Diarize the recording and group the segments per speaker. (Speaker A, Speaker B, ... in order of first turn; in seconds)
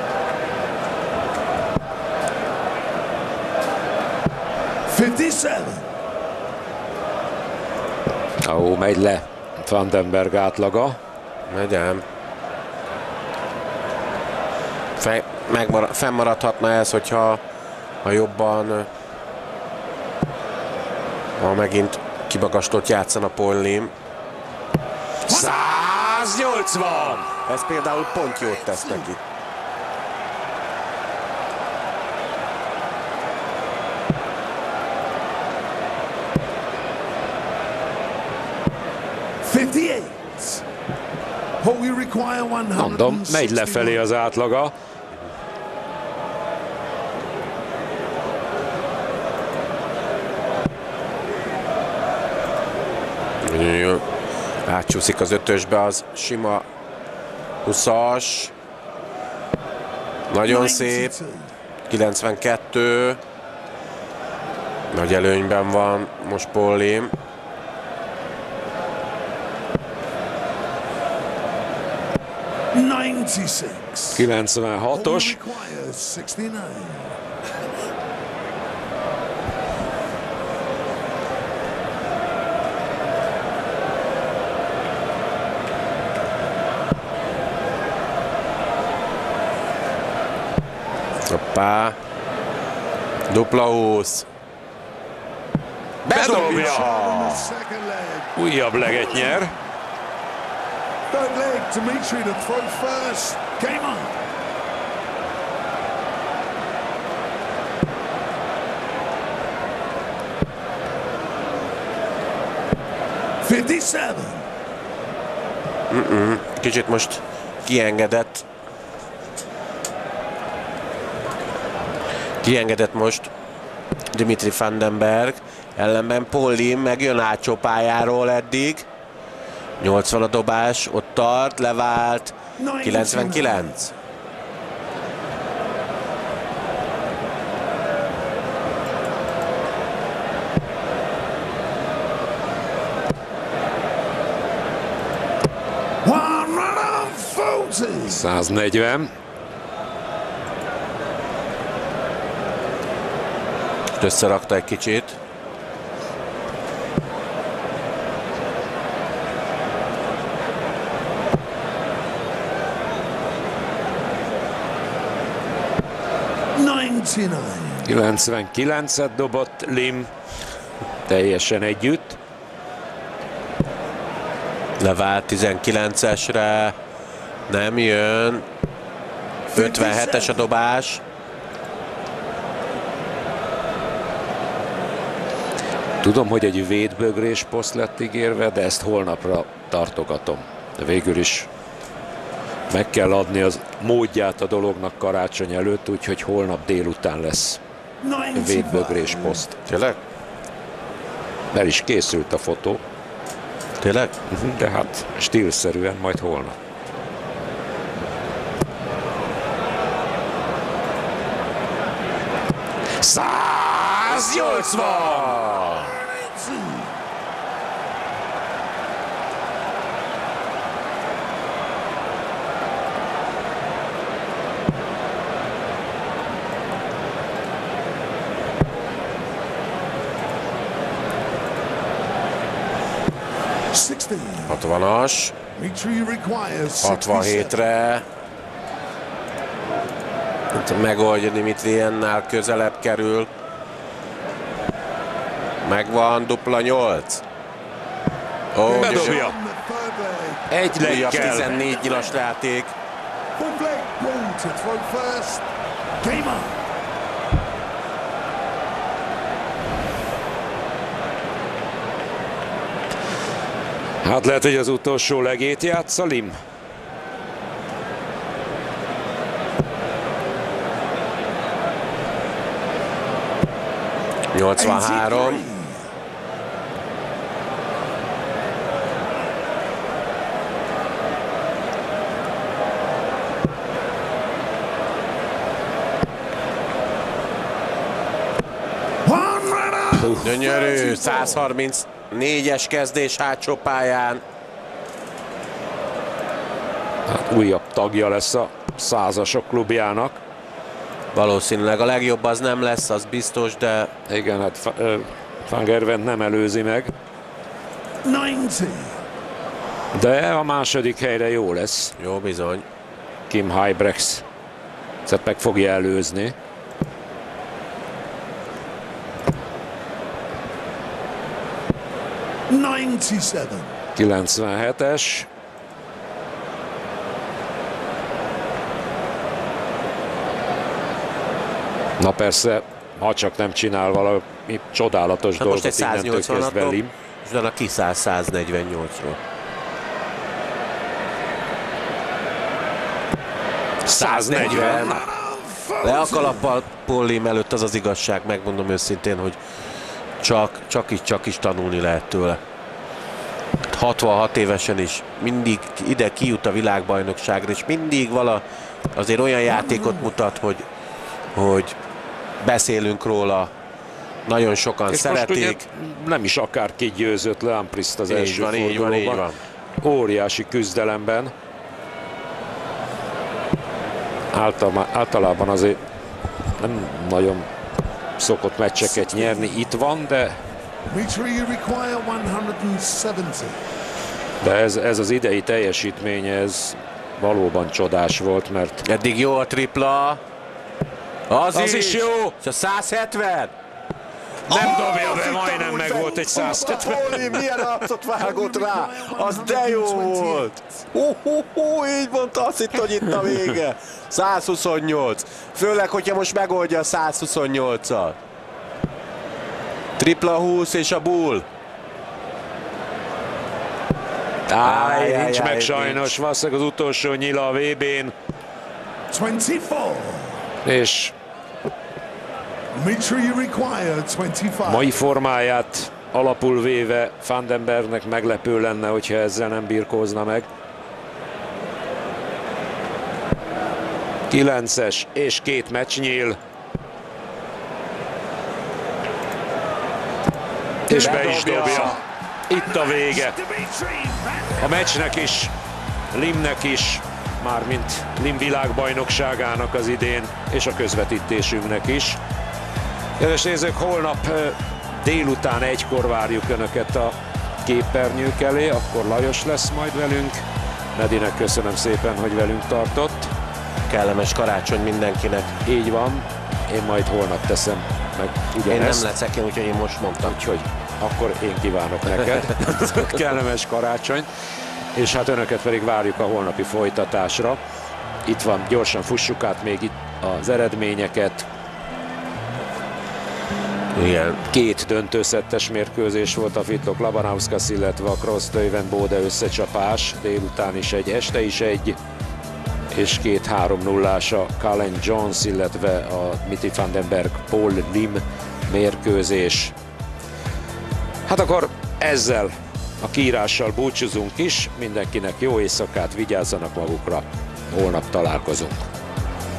Speaker A: 4.9-5.9, 28.1-29.1, 39.4-40.6, 41.6-44.0, 60.5-61.5, 72.7-74.3, 74.9-77.2, 96.1-99.5, 101.1-104.2, 113.4-114.5, 132.6-133.7, 146.0-148.2, 166.6-167.9, 179.5-180.4, 198.0-199.4, 215.5-216.9, 233.7-234.6, 235.6-237.6, 248.7-252.2, 253.4-255.5, 256.0-256.6, 274.6-275.9, 289.1-291.5, 308.0-309.0, 322.5-323.7, 344.3-346.5, 359.5-360.1, 378.8-379.6, 380.9-383.6, 394.5-397.2, 398.2-400.6, 419.1-420.4, 422.8-425.0, 440.9-444.9
Speaker B: 8.4-11.0, 25.3-27.3, 42.8-44.7, 74.1-75.4, 96.1-96.9, 98.4-99.5, 148.1-149.1, 167.8-170.1, 171.1-172.2, 186.0-191.5, 192.7-197.6, 198.3-199.6, 201.5-202.8, 204.3-206.6, 213.0-215.4, 248.8-249.4, 250.5-251.5, 264.0-266.4, 290.0-290.4, 297.1-300.2, 304.1-306.9, 309.9-311.9, 313.3-314.2, 315.1-316.4, 324.0-325.3, 332.0-336.9, 343.9-345.1, 364.9-369.2, 369.8-371.3, 374.3-375.8, 376.6-377.5, 378.2-380.4, 384.4-388.8, 391.5-392.3, 394.5-397.6, 414.5-418.1, 420.6-421.1, 424.6-430.5, 434.3-436.4, 440.9-443.4, 444.6-445.5, 446.1-452.2, 453.2-457.1, 457.6-460.4, 461.0-463.3, 465.6-469.1, 470.2-474.3, 474.9-477.6, 478.3-481.5, 484.5-492.0, 492.9-499.7, 501.3-508.8
Speaker C: 11.5-12.0, 15.0-17.4, 18.0-18.9, 21.4-23.9, 27.5-29.2, 53.4-54.0, 54.7-56.7, 57.6-58.5, 60.3-61.1, 61.9-63.2, 64.9-67.1, 91.3-92.0, 93.3-94.3, 96.0-97.6, 115.9-118.5, 122.4-123.3, 124.1-128.9, 129.8-133.9, 154.0-155.2, 174.8-176.8, 177.5-178.4, 179.5-181.0, 199.7-200.0, 203.8-204.2, 214.1-215.9, 234.5-235.4, 236.8-238.1, 240.5-243.3, 245.6-247.2, 248.5-249.2, 250.8-252.8, 274.3-275.4, 290.2-294.2, 301.1-303.9, 312.0-312.7, 335.4-339.2, 343.9-345.0, 345.8-349.4, 350.2-352.4, 353.7-360.7, 361.4-361.8, 362.4-363.5, 364.3-365.6, 368.1-369.4, 388.8-390.2, 391.3-393.5, 395.6-408.2, 410.0-411.5, 414.6-416.2, 440.9-442.0, 463.9-465.6, 468.7-470.4, 472.3-472.8, 483.9-484.4